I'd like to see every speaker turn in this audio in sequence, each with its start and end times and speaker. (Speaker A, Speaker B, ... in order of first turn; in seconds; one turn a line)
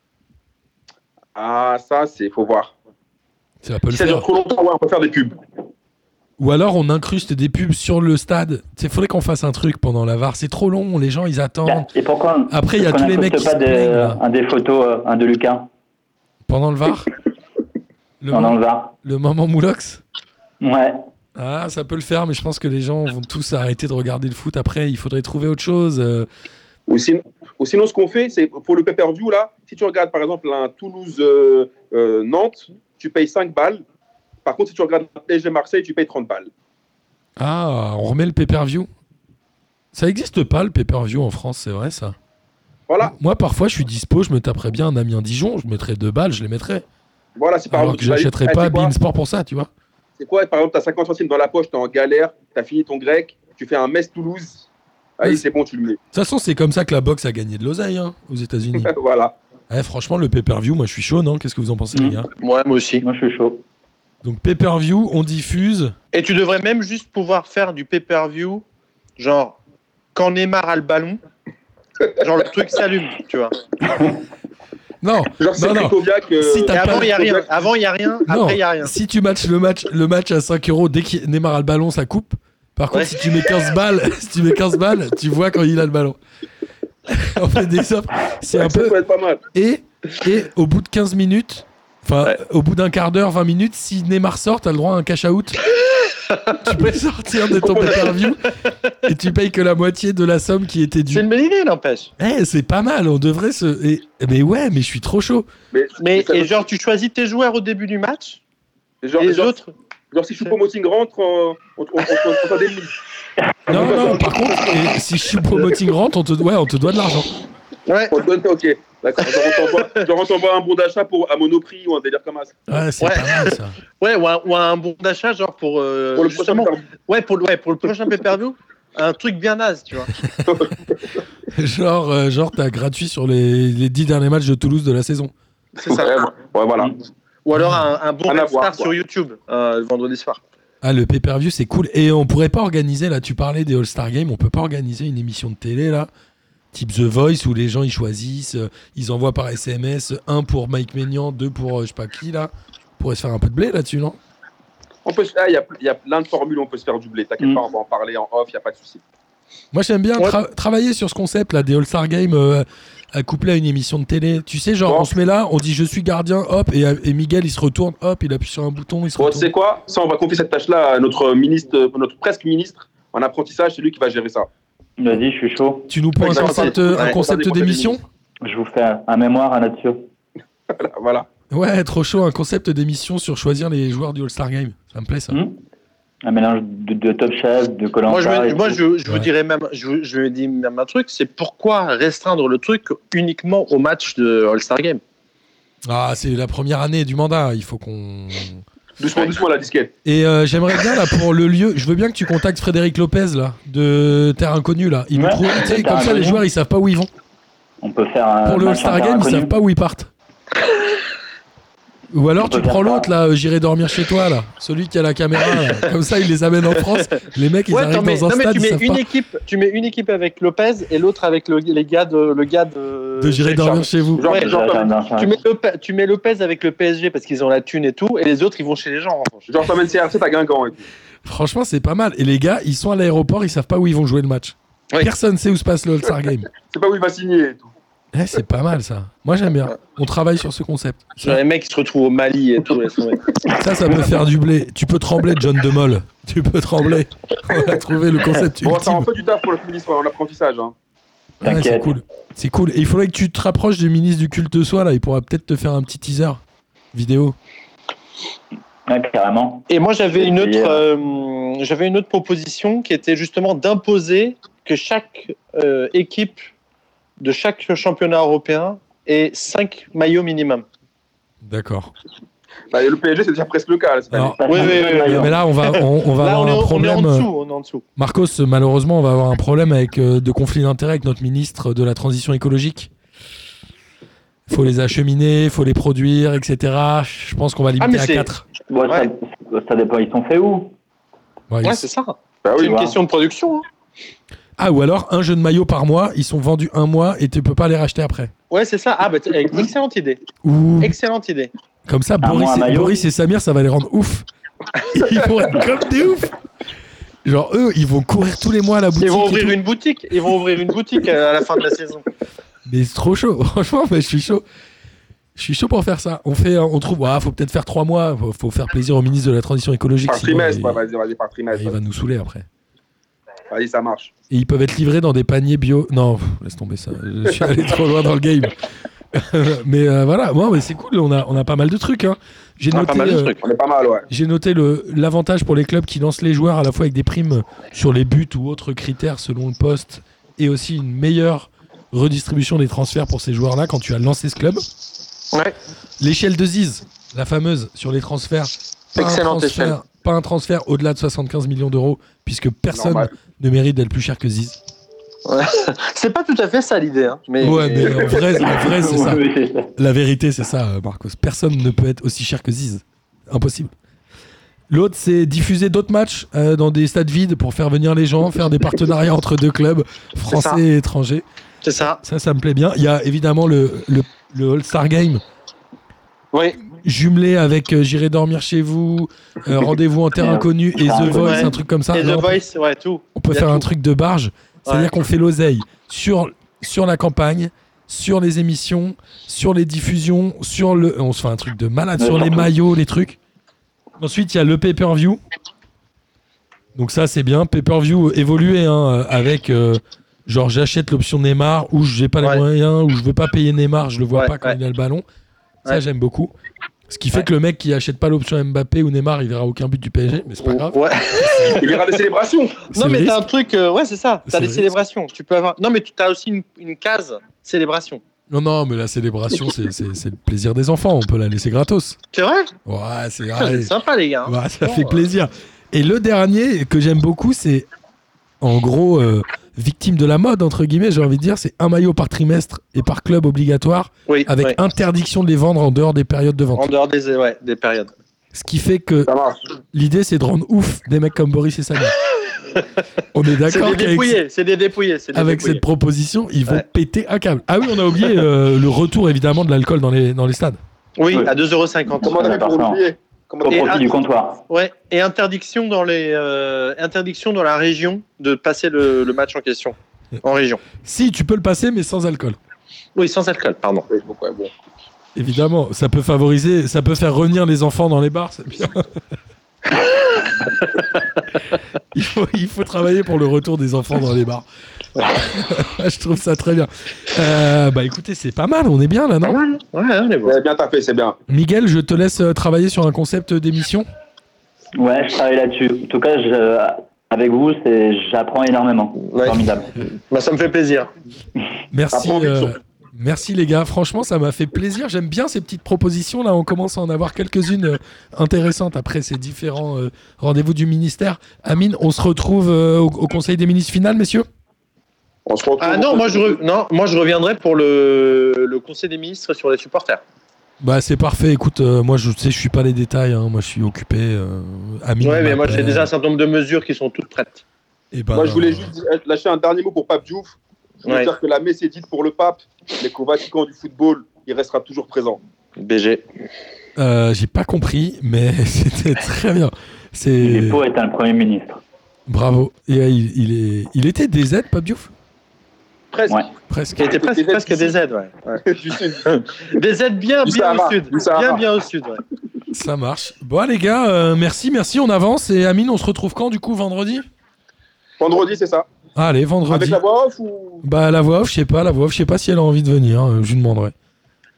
Speaker A: 1.4-2.8
Speaker B: 3.6-4.2
Speaker A: 3.9-5.3
Speaker B: 6.4-11.9
Speaker C: 11.6-15.7
Speaker B: 12.5-14.2
Speaker B: 16.5-17.1
Speaker B: 18.2-20.0
Speaker C: 18.3-18.9
Speaker C: 20.6-21.0
Speaker B: 21.4-26.3
Speaker A: 26.9-33.8
Speaker A: 34.5-36.5
Speaker B: 37.4-38.9
Speaker B: 39.9-42.1
Speaker A: 42.9-43.1
Speaker B: 43.0-46.9
Speaker A: 47.4-48.9
Speaker B: 47.7-49.7
Speaker A: 50.2-54.6
Speaker A: 55.2-56.0
Speaker B: 56.1-58.9
Speaker A: 58.8-59.4
Speaker B: 59.7-62.3
Speaker C: 61.9-62.3
Speaker D: 62.4-63.0
Speaker C: 63.0-63.6
Speaker B: 64.2-65.9
Speaker D: 66.1-68.6
Speaker D: 69.2-69.6
Speaker D: 70.1-71.2
Speaker D: 72.2-73.5
Speaker B: 75.0-77.1
Speaker A: 75.4-77.5
Speaker D: 76.7-78.9
Speaker B: 78.3-86.2
Speaker B: 87.1-89.0
Speaker A: 88.6-89.4
Speaker B: 89.5-95.7
Speaker D: 96.3-96.9
Speaker B: 96.5-98.5
Speaker D: 97.6-98.1
Speaker A: 97.7-98.1
Speaker B: 99.0-101.2
Speaker D: 101.1-102.1
Speaker B: 102.2-105.5
Speaker A: 105.7-106.5
Speaker D: 106.0-108.4
Speaker A: 109.0-109.5
Speaker D: 109.2-109.7
Speaker A: 110.1-113.0
Speaker A: 113.7-114.3
Speaker B: 113.7-117.3
Speaker D: 117.9-118.2
Speaker A: 118.1-122.6
Speaker B: 122.7-123.8
Speaker D: 123.0-130.1
Speaker A: 126.2-126.8
Speaker A: 130.5-131.0
Speaker B: 131.5-135.3
Speaker D: 135.8-136.2
Speaker A: 135.9-136.9
Speaker D: 137.4-140.4
Speaker B: 137.6-137.8
Speaker A: 138.3-138.9
Speaker B: 140.8-146.1
Speaker B: 146.7-154.2
Speaker A: 155.1-159.0
Speaker B: 159.7-169.5
Speaker A: 169.2-174.5
Speaker C: 175.0-175.9
Speaker B: 175.9-178.0
Speaker D: 176.2-177.2
Speaker A: 176.3-178.0
Speaker C: 178.4-180.1
Speaker A: 180.7-181.3
Speaker B: 181.5-185.4
Speaker C: 185.3-185.6
Speaker C: 186.2-188.8
Speaker D: 188.1-195.0
Speaker B: 195.9-198.6
Speaker A: 199.0-199.9
Speaker B: 200.1-207.1
Speaker C: 205.1-206.4
Speaker C: 207.8-209.6
Speaker B: 208.4-210.1
Speaker B: 212.1-219.0
Speaker C: 212.4-213.1
Speaker D: 217.7-224.6
Speaker B: 223.2-224.2
Speaker A: 224.2-225.0
Speaker C: 224.3-225.4
Speaker D: 225.2-229.6
Speaker A: 229.5-230.9
Speaker B: 231.2-236.5
Speaker A: 236.6-237.7
Speaker B: 238.1-241.4
Speaker D: 241.2-243.3
Speaker B: 243.5-249.1
Speaker A: 248.6-250.7
Speaker C: 251.4-251.9
Speaker B: 251.4-256.4
Speaker B: 256.9-257.4
Speaker C: 258.9-260.9
Speaker D: 259.7-266.4
Speaker D: 267.2-270.6
Speaker B: 271.4-271.9
Speaker A: 272.7-274.4
Speaker B: 274.1-277.3
Speaker C: 274.4-275.4
Speaker D: 274.5-277.8
Speaker B: 278.0-282.9
Speaker B: 284.5-288.5
Speaker D: 287.8-288.3
Speaker C: 288.7-290.7
Speaker B: 291.5-291.8
Speaker D: 291.6-293.6
Speaker A: 292.4-292.9
Speaker C: 292.6-292.9
Speaker B: 294.6-298.3
Speaker D: 298.5-300.2
Speaker B: 300.4-301.0
Speaker D: 300.8-301.5
Speaker B: 301.9-304.3
Speaker C: 302.2-303.0
Speaker B: 304.8-306.4
Speaker B: 307.2-309.6
Speaker D: 309.0-312.0
Speaker B: 312.6-314.4
Speaker B: 315.4-320.8
Speaker A: 320.1-321.8
Speaker B: 321.5-322.5
Speaker A: 323.5-324.1
Speaker B: 324.3-328.6
Speaker B: 329.1-333.3
Speaker D: 332.7-333.4
Speaker A: 333.4-334.1
Speaker B: 334.1-344.6
Speaker B: 346.0-354.6
Speaker D: 349.0-349.8
Speaker A: 352.7-353.1
Speaker D: 355.3-358.2
Speaker B: 357.4-359.2
Speaker A: 357.9-358.1
Speaker C: 358.4-359.7
Speaker B: 359.8-363.7
Speaker B: 364.7-371.2
Speaker D: 370.3-370.6
Speaker D: 371.6-372.0
Speaker B: 371.8-375.2
Speaker D: 376.3-376.6
Speaker B: 376.8-382.4
Speaker C: 380.2-381.6
Speaker D: 381.1-383.6
Speaker B: 383.1-393.2
Speaker D: 384.6-384.9
Speaker C: 392.0-392.5
Speaker B: 394.0-395.2
Speaker B: 396.8-405.0
Speaker D: 404.1-404.6
Speaker B: 405.7-406.3
Speaker B: 406.9-411.7
Speaker D: 410.4-411.9
Speaker A: 411.6-412.6
Speaker D: 412.7-418.0
Speaker B: 412.7-413.2
Speaker B: 414.3-414.7
Speaker B: 418.3-422.0
Speaker D: 422.1-422.5
Speaker B: 422.6-423.7
Speaker D: 423.4-425.0
Speaker B: 424.3-427.7
Speaker B: 428.4-436.7
Speaker D: 434.1-434.6
Speaker D: 436.6-437.9
Speaker B: 438.3-439.1
Speaker A: 439.1-439.4
Speaker B: 439.7-442.0
Speaker B: 443.1-444.2
Speaker D: 443.5-445.6
Speaker B: 445.1-450.6
Speaker D: 451.0-452.4
Speaker C: 452.0-452.8
Speaker A: 452.0-453.9
Speaker C: 453.4-454.4
Speaker D: 453.5-453.9
Speaker D: 454.5-460.6
Speaker B: 460.8-462.4
Speaker D: 463.0-463.9
Speaker A: 463.9-464.5
Speaker B: 465.1-468.9
Speaker B: 471.9-474.5
Speaker B: 475.0-479.4
Speaker D: 479.2-480.4
Speaker A: 480.3-481.2
Speaker B: 481.3-483.9
Speaker C: 484.8-489.7
Speaker D: 489.1-490.9
Speaker B: 491.7-504.3
Speaker A: 491.9-492.5
Speaker A: 505.3-506.4
Speaker D: 505.6-510.0
Speaker B: 510.6-515.9
Speaker D: 515.0-517.4
Speaker B: 517.9-518.7
Speaker A: 518.1-525.2
Speaker D: 520.9-521.1
Speaker D: 525.6-526.0
Speaker B: 526.8-530.6
Speaker C: 530.2-531.6
Speaker B: 532.1-534.9
Speaker A: 535.9-536.3
Speaker B: 536.5-536.9
Speaker A: 536.8-537.8
Speaker D: 536.8-538.5
Speaker A: 538.5-539.1
Speaker D: 539.0-542.0
Speaker A: 540.2-541.4
Speaker B: 542.5-547.0
Speaker A: 548.0-548.7
Speaker B: 549.0-549.8
Speaker A: 549.5-550.6
Speaker B: 550.6-553.7